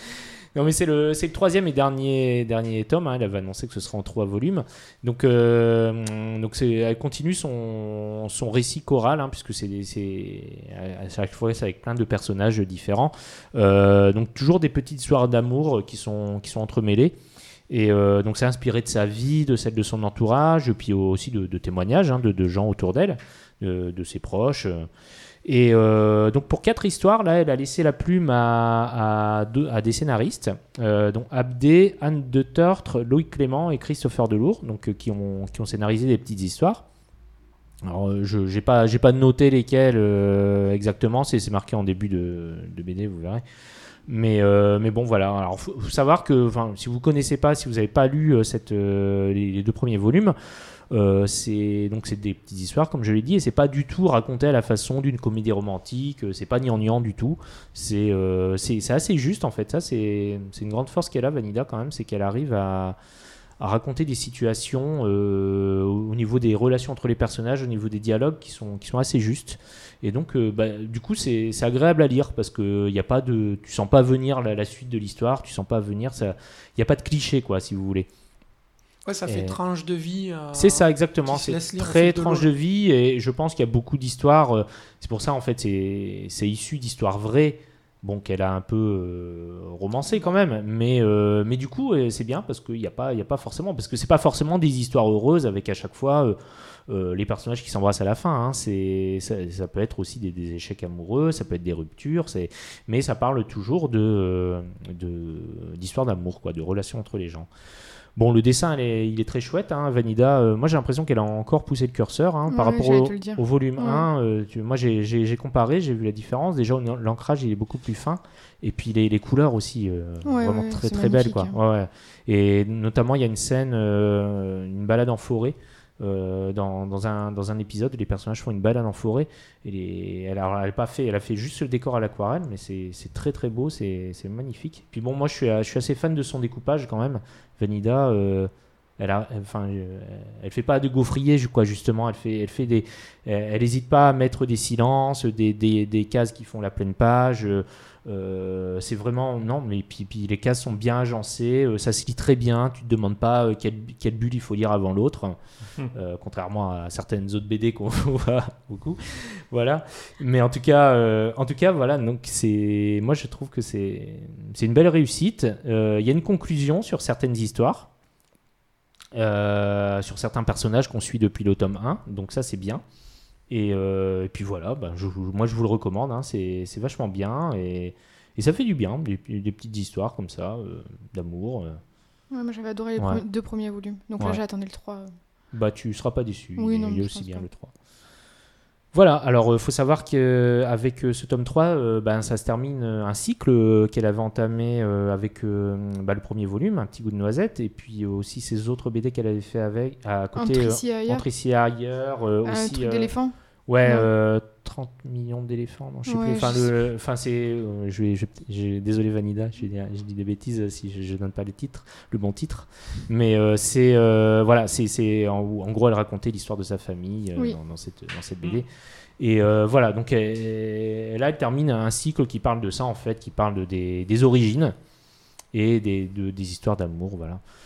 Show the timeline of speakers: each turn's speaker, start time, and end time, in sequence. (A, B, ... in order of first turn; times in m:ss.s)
0:00.5-0:17.2 A
0:17.7-0:24.9 A
0:25.4-0:36.8 A
0:37.8-0:43.4 A
0:44.1-0:50.3 A
0:50.9-1:03.0 A
1:03.6-1:18.1 A
1:19.0-1:22.5 B
1:19.2-1:19.6 A
1:20.5-1:36.4 A
1:30.1-1:30.3 B
1:36.9-1:47.5 A
1:48.2-2:35.4 A
1:52.5-1:54.0 C
2:00.2-2:01.5 C
2:35.9-2:47.9 A
2:49.1-2:52.8 A
2:53.5-3:01.8 A
3:02.3-3:05.1 C
3:03.0-3:03.2 A
3:05.5-3:07.7 A
3:06.6-3:07.5 C
3:08.9-3:23.1 A
3:20.3-3:21.3 C
3:22.4-3:24.1 C
3:23.7-3:38.7 A
3:26.0-3:26.7 C
3:39.2-3:44.8 A
3:45.5-3:47.4 A